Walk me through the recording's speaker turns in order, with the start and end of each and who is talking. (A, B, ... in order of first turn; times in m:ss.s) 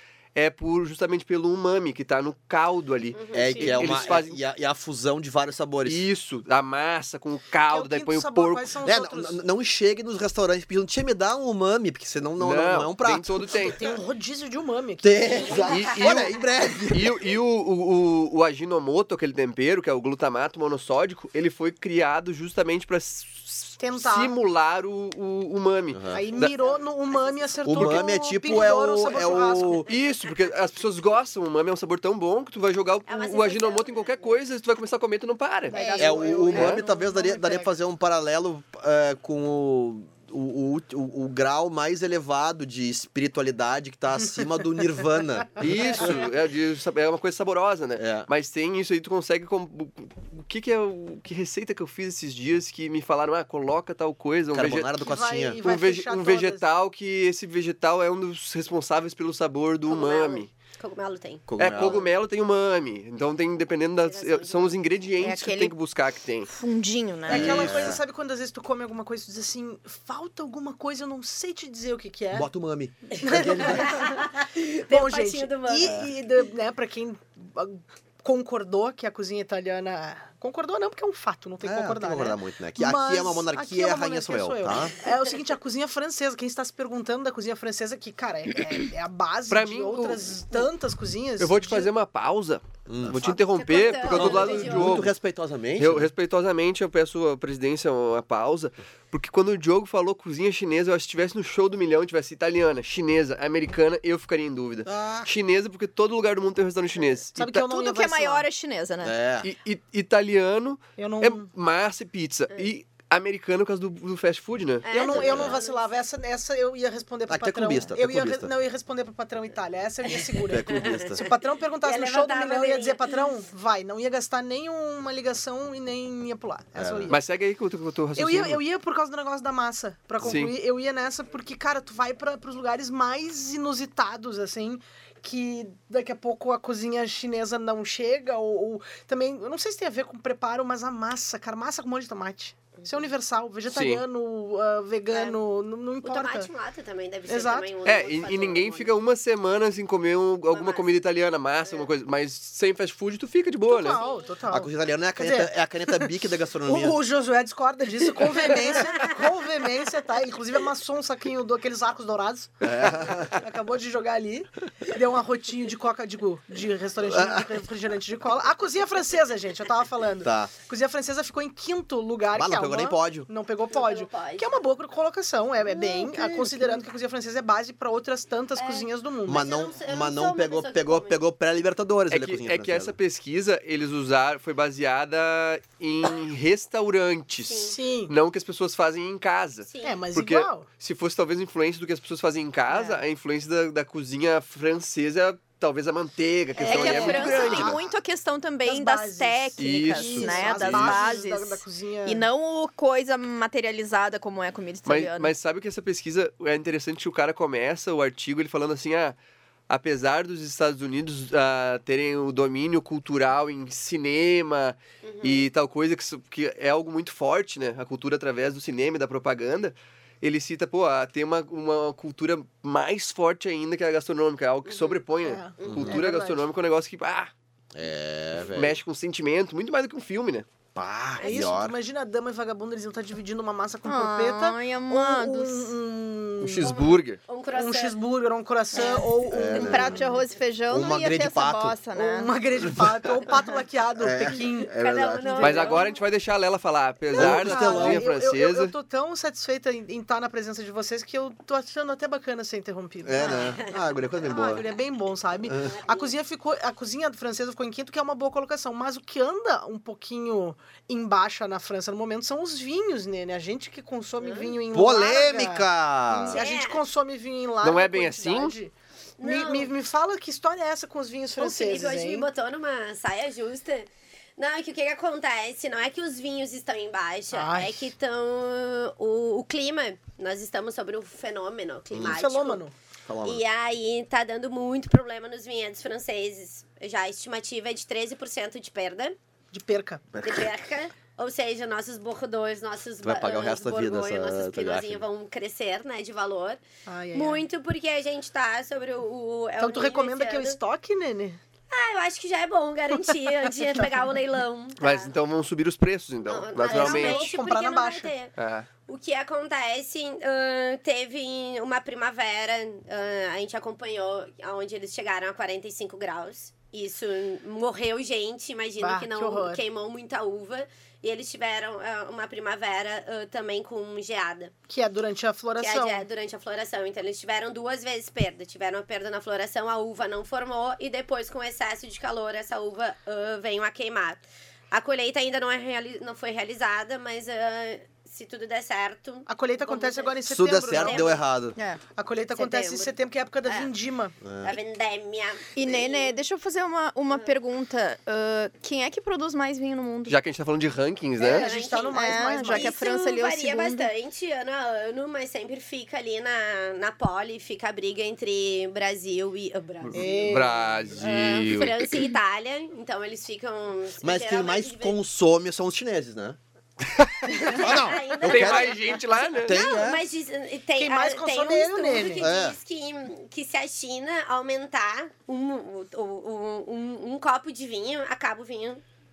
0:00.4-0:04.4 A
0:03.1-0:04.1 B
0:03.3-0:06.1 C
0:03.4-0:03.8 D
0:05.8-0:08.7 A
0:07.7-0:09.4 D
0:08.8-0:13.8 C
0:12.4-0:13.9 A
0:13.5-0:15.8 D
0:15.0-0:17.2 C
0:15.4-0:16.1 B
0:15.7-0:16.3 A
0:16.9-0:26.5 A
0:23.8-0:24.3 D
0:25.9-0:26.2 C
0:26.1-0:29.9 D
0:26.6-0:28.0 B
0:27.6-0:29.9 C
0:29.9-0:35.8 A
0:33.1-0:34.4 B
0:35.7-0:37.7 D
0:35.7-0:36.6 E
0:36.0-0:46.3 C
0:36.5-0:36.8 A
0:45.6-0:55.0 A
0:48.0-0:48.3 C
0:54.5-0:55.6 C
0:55.0-0:56.6 D
0:55.6-1:00.5 A
0:59.9-1:02.1 B
1:01.5-1:02.0 C
1:01.6-1:06.5 A
1:04.0-1:04.8 B
1:05.2-1:05.8 E
1:06.5-1:07.7 E
1:07.3-1:12.5 D
1:07.3-1:08.0 C
1:07.4-1:07.8 A
1:12.3-1:14.0 C
1:13.1-1:16.1 B
1:13.2-1:31.9 D
1:15.8-1:16.1 C
1:21.6-1:25.0 C
1:29.5-1:30.7 A
1:31.4-1:35.1 A
1:32.9-1:33.4 C
1:33.3-1:35.1 B
1:33.9-1:34.8 D
1:34.0-1:36.1 C
1:35.8-1:47.6 A
1:44.8-1:45.3 C
1:47.4-1:48.4 D
1:47.5-1:49.1 E
1:49.0-1:49.5 C
1:49.4-1:54.9 A
1:51.0-1:51.5 D
1:54.8-1:55.8 B
1:54.9-2:07.2 D
1:55.1-1:55.6 C
1:57.3-1:58.5 C
2:00.5-2:01.3 C
2:00.6-2:03.1 B
2:06.8-2:07.2 C
2:07.1-2:08.6 A
2:08.2-2:26.5 D
2:10.2-2:10.5 A
2:23.7-2:24.0 A
2:25.1-2:25.4 B
2:26.0-2:28.9 B
2:27.3-2:27.7 D
2:27.8-2:34.0 A
2:30.5-2:31.0 B
2:31.6-2:31.9 B
2:33.7-2:36.1 D
2:33.9-2:34.4 B
2:34.5-2:37.0 C
2:36.6-2:59.5 D
2:42.6-2:43.4 C
2:47.0-2:47.6 C
2:50.2-2:50.5 C
2:52.3-2:53.3 C
2:53.7-2:54.6 B
2:56.1-2:56.5 C
2:58.6-3:01.2 B
2:59.3-3:03.0 C
3:02.1-3:17.8 A
3:07.4-3:07.8 B
3:07.7-3:08.1 D
3:09.7-3:10.0 B
3:09.8-3:10.6 D
3:12.7-3:13.0 E
3:16.6-3:17.9 D
3:16.6-3:25.3 E
3:16.7-3:17.5 B
3:18.6-3:22.3 D
3:19.6-3:21.2 A
3:24.9-3:29.2 A
3:29.7-3:47.3 A
3:35.0-3:35.5 B
3:44.6-3:45.0 B
3:45.2-3:46.4 D
3:45.6-3:45.9 B
3:45.7-3:46.0 C
3:47.7-3:48.8 C
3:48.5-3:50.5 A
3:50.8-3:51.8 C
3:51.2-3:51.5 B
3:51.2-3:56.9 D
3:53.9-3:55.7 E
3:56.4-3:57.2 A
3:56.6-3:58.0 B
3:57.5-4:00.1 D
3:58.7-3:59.1 B
3:59.3-4:00.1 C
3:59.5-4:02.3 E
3:59.7-4:00.1 B
4:00.7-4:01.8 C
4:02.0-4:04.7 D
4:04.0-4:05.8 C
4:04.7-4:06.0 B
4:05.4-4:05.8 D
4:05.4-4:08.7 A
4:07.1-4:13.6 D
4:07.1-4:08.1 C
4:13.0-4:14.6 C
4:13.2-4:14.6 B
4:14.2-4:32.3 D
4:15.5-4:16.1 B
4:24.2-4:24.6 B
4:24.7-4:26.4 C
4:26.3-4:26.8 B
4:27.6-4:28.6 A
4:29.2-4:29.7 B
4:31.4-4:42.6 B
4:37.3-4:37.9 D
4:41.9-4:42.2 C
4:42.0-4:42.7 D
4:43.1-4:43.4 C
4:43.2-4:49.2 B
4:49.5-4:50.1 D
4:50.1-4:50.5 C
4:50.2-4:56.6 B
4:53.0-4:55.0 C
4:56.9-4:57.4 D
4:57.1-5:00.6 B
4:59.6-5:01.4 D
5:01.7-5:05.1 B
5:04.8-5:07.3 A
5:06.3-5:08.3 B
5:06.7-5:08.1 D
5:08.4-5:08.7 A
5:08.9-5:24.5 B
5:18.8-5:19.6 D
5:24.7-5:26.1 D
5:25.6-5:41.2 B
5:39.3-5:41.2 D
5:40.3-5:41.6 C
5:41.6-5:41.8 E
5:42.0-5:44.2 D
5:42.3-5:43.0 B
5:43.5-5:43.7 B
5:44.2-5:44.6 C
5:44.4-5:46.2 B
5:45.6-5:50.2 E
5:47.1-5:47.3 B
5:50.1-5:51.5 A
5:51.2-5:52.8 D
5:51.2-6:00.4 B
5:51.9-5:53.9 E
5:59.9-6:02.0 A
5:59.9-6:00.6 D
6:01.0-6:05.0 B
6:04.0-6:06.4 C
6:07.3-6:18.8 B
6:07.3-6:08.9 C
6:08.2-6:09.6 A
6:09.4-6:10.0 C
6:10.8-6:12.3 D
6:12.2-6:12.6 C